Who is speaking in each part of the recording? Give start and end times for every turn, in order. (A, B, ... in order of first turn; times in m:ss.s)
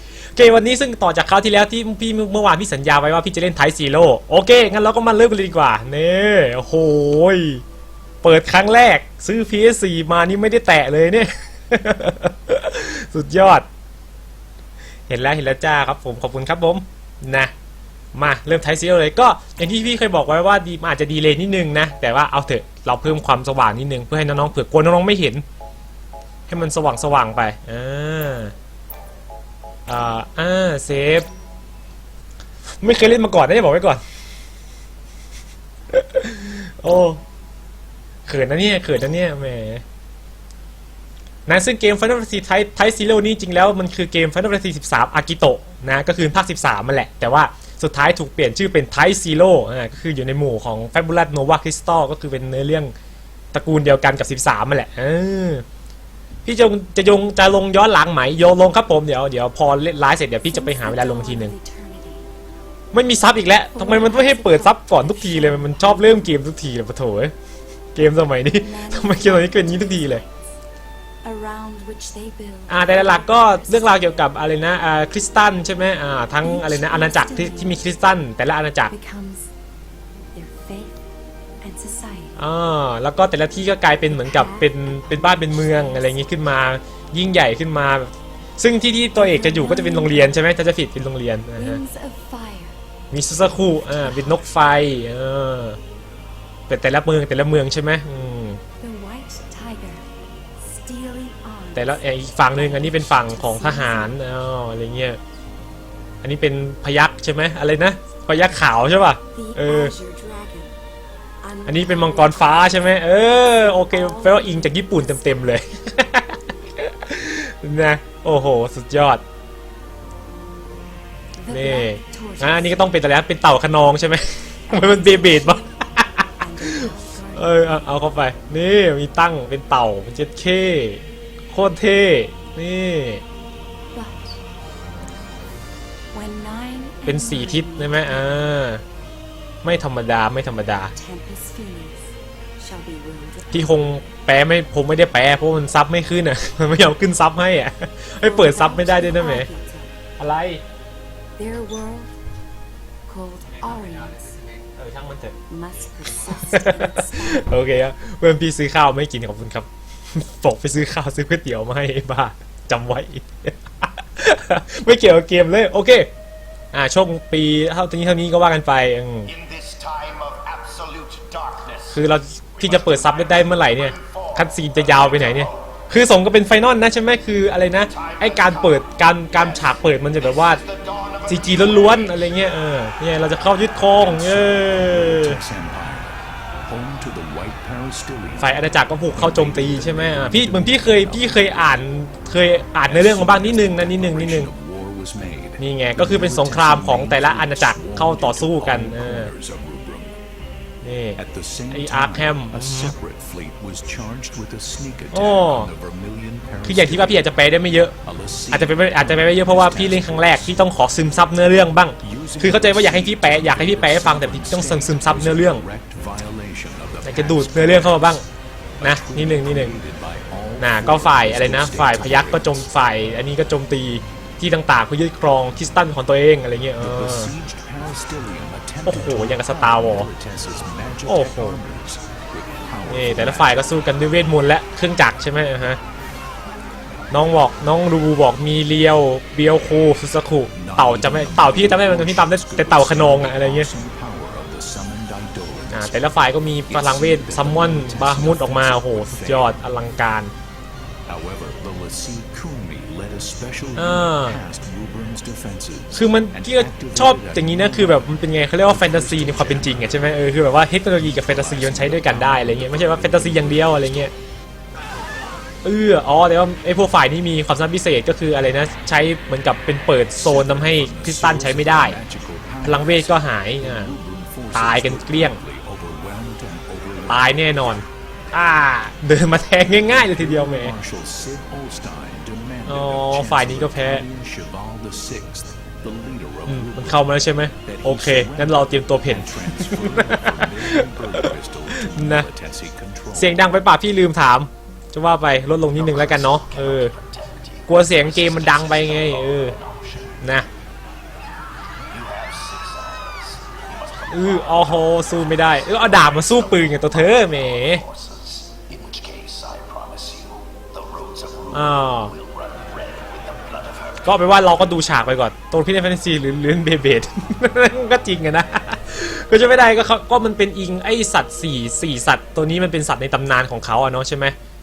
0:00.3-0:07.6 A
0:08.2-0:13.6 A
0:15.1-0:17.5 A
0:18.1-0:25.4 A
0:26.5-0:28.5 A
0:29.9-0:31.3 A
0:32.8-0:34.0 A
0:35.9-0:37.2 A
0:38.2-0:39.8 A
0:41.4-0:52.9 A
0:53.5-0:55.6 A
0:56.4-1:01.5 A
1:00.5-1:02.3 B
1:02.9-1:07.3 A
1:03.7-1:06.3 B
1:07.9-1:10.2 A
1:08.4-1:10.5 B
1:11.2-1:14.2 B
1:12.7-1:18.9 A
1:16.4-1:17.8 B
1:18.9-1:19.5 B
1:20.3-1:21.0 B
1:21.6-1:22.4 B
1:22.4-1:31.8 A
1:24.1-1:26.6 B
1:29.2-1:30.5 B
1:31.6-1:32.8 B
1:33.1-1:35.8 A
1:33.4-1:34.4 B
1:36.7-1:38.6 A
1:38.8-1:40.0 B
1:40.6-1:44.2 B
1:41.7-1:45.2 A
1:46.2-1:49.9 A
1:49.3-1:50.7 B
1:51.4-1:55.6 B
1:51.6-1:59.2 A
2:01.3-2:03.1 B
2:01.5-2:13.2 A
2:04.7-2:05.6 B
2:06.2-2:08.0 B
2:13.9-2:14.4 B
2:16.1-2:18.5 B
2:17.0-2:18.8 A
2:19.6-2:20.9 A
2:20.9-2:23.8 B
2:23.5-2:29.5 A
2:28.2-2:30.0 B
2:30.2-2:30.6 A
2:31.4-2:32.1 B
2:33.1-2:34.4 B
2:34.7-2:35.3 A
2:35.5-2:37.6 B
2:36.3-2:46.1 A
2:46.7-2:49.3 A
2:49.3-2:52.0 C
2:51.9-3:00.6 A
2:52.6-2:55.6 C
2:57.9-3:02.4 C
3:01.3-3:05.4 A
3:03.9-3:11.6 D
3:08.4-3:14.5 A
3:12.8-3:20.2 D
3:15.6-3:19.3 A
3:20.8-3:22.9 A
3:21.2-3:27.3 D
3:25.1-3:25.7 A
3:26.6-3:27.9 A
3:28.0-3:30.7 D
3:28.5-3:35.6 A
3:32.0-3:38.2 D
3:37.0-3:38.2 A
3:38.8-3:42.7 D
3:38.8-3:39.8 A
3:40.6-3:47.3 A
3:46.8-3:53.6 D
3:48.8-3:50.1 A
3:51.0-3:51.6 A
3:52.8-3:55.8 A
3:57.1-4:03.7 A
4:00.5-4:06.0 D
4:05.7-4:10.3 A
4:06.7-4:09.6 D
4:11.0-4:20.1 D
4:13.8-4:14.4 A
4:15.9-4:24.1 A
4:20.9-4:24.1 D
4:25.6-4:32.0 A
4:30.1-4:37.6 D
4:32.6-4:33.9 A
4:34.5-4:35.4 A
4:37.1-4:40.8 A
4:39.7-4:53.4 D
4:42.6-4:44.0 A
4:46.4-4:52.3 A
4:53.1-4:56.9 A
4:55.9-4:56.6 D
4:57.7-4:59.6 A
4:58.3-5:00.1 C
5:00.2-5:00.5 A
5:01.9-5:04.8 C
5:04.1-5:07.8 A
5:05.9-5:11.5 C
5:08.5-5:09.8 D
5:11.1-5:13.0 D
5:11.5-5:12.1 A
5:12.5-5:14.0 C
5:14.0-5:24.4 A